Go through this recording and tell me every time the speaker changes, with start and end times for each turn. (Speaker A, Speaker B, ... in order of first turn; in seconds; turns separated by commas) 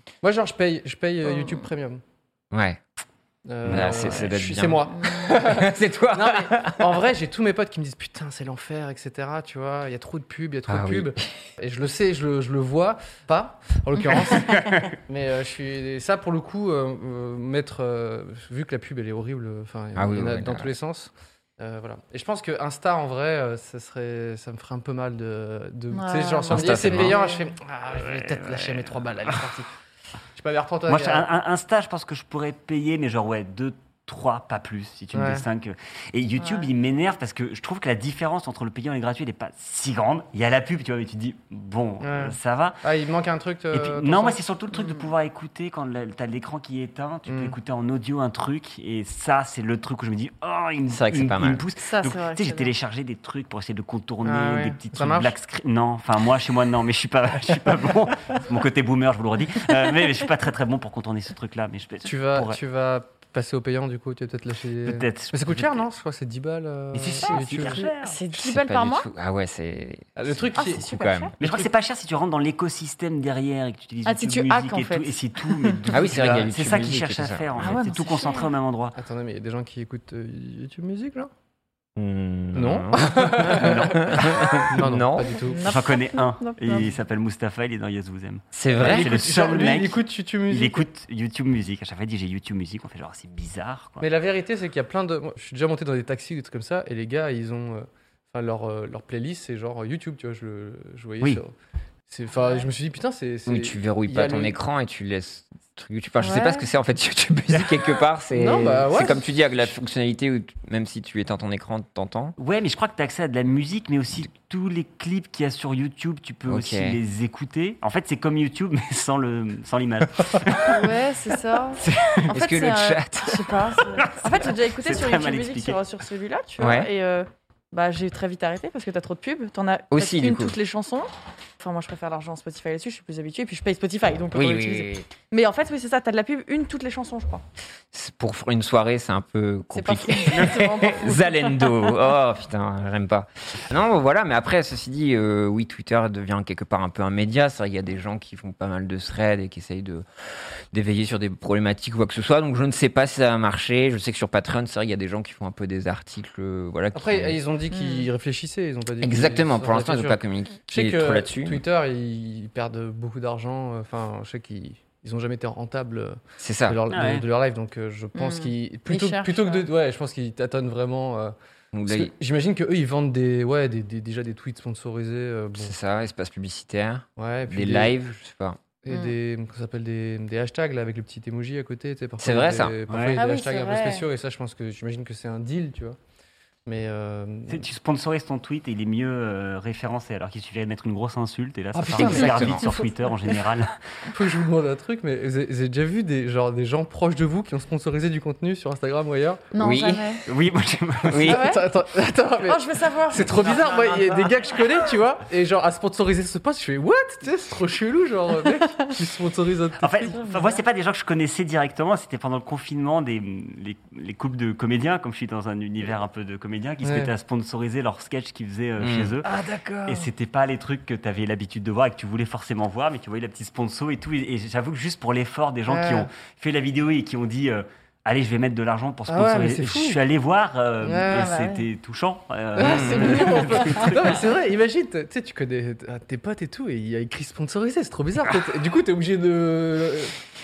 Speaker A: 0.2-2.0, Speaker B: 1.2-1.7, Speaker C: 2.5-2.8, Speaker A: 3.5-29.7, Speaker D: 3.6-4.3, Speaker C: 3.6-7.1, Speaker B: 5.0-5.3, Speaker C: 10.7-11.3, Speaker C: 19.9-20.7, Speaker B: 25.9-27.5, Speaker C: 26.5-27.2, Speaker D: 28.0-28.9, Speaker A: 30.4-31.3, Speaker D: 30.9-42.8, Speaker A: 35.1-35.4, Speaker B: 36.4-36.7, Speaker A: 42.0-44.4, Speaker D: 43.7-62.6, Speaker B: 44.7-45.1, Speaker A: 47.3-47.5, Speaker C: 50.9-51.7, Speaker B: 51.8-52.7, Speaker A: 54.2-55.3, Speaker A: 62.0-67.9, Speaker D: 64.8-65.8, Speaker D: 66.9-68.2, Speaker B: 67.2-69.1, Speaker C: 68.3-71.3, Speaker A: 70.2-71.7, Speaker B: 70.5-71.3, Speaker D: 71.4-79.0, Speaker B: 74.1-75.9, Speaker C: 75.9-77.8, Speaker B: 77.6-78.5, Speaker A: 79.0-81.3, Speaker C: 82.0-85.5, Speaker A: 82.5-85.8, Speaker D: 83.4-84.6, Speaker B: 85.5-86.9, Speaker D: 85.6-94.0, Speaker C: 88.5-89.1, Speaker A: 88.8-90.9, Speaker A: 94.0-101.5, Speaker A: 102.1-104.6, Speaker C: 103.5-112.3, Speaker B: 106.2-106.7, Speaker D: 107.5-107.8, Speaker A: 108.3-109.3, Speaker D: 112.4-120.9, Speaker C: 116.5-117.0, Speaker B: 120.6-137.4, Speaker D: 121.8-122.4, Speaker C: 122.3-123.6, Speaker D: 124.0-125.8, Speaker C: 126.6-126.9, Speaker C: 129.9-130.6, Speaker C: 134.3-135.1, Speaker C: 137.9-150.1, Speaker B: 139.7-141.9, Speaker C: 150.7-157.4, Speaker A: 156.9-160.2, Speaker B: 157.7-158.1, Speaker C: 159.0-161.6, Speaker A: 160.7-171.3, Speaker C: 166.4-166.8, Speaker D: 166.9-167.2, Speaker B: 168.2-169.7, Speaker C: 171.7-172.1, Speaker A: 171.9-175.7, Speaker C: 175.6-178.6, Speaker A: 177.2-178.0, Speaker A: 178.8-186.0, Speaker B: 178.9-179.2, Speaker C: 182.2-182.8, Speaker D: 182.9-183.2, Speaker B: 183.2-184.1, Speaker A: 186.7-187.7, Speaker D: 187.5-194.1, Speaker A: 191.8-193.4, Speaker C: 191.9-192.7, Speaker A: 194.1-199.5, Speaker B: 199.5-200.2, Speaker C: 199.6-200.2, Speaker D: 200.3-201.3, Speaker C: 201.1-201.5, Speaker A: 201.2-210.2, Speaker B: 201.3-201.7, Speaker B: 202.4-204.3, Speaker D: 209.8-219.3, Speaker B: 210.1-210.6, Speaker A: 216.8-217.1, Speaker C: 218.8-219.2, Speaker A: 219.2-220.1, Speaker D: 219.9-234.3, Speaker A: 225.7-226.1, Speaker A: 229.1-230.0, Speaker A: 230.8-231.3, Speaker B: 230.9-231.7, Speaker A: 232.6-240.1, Speaker C: 232.6-233.4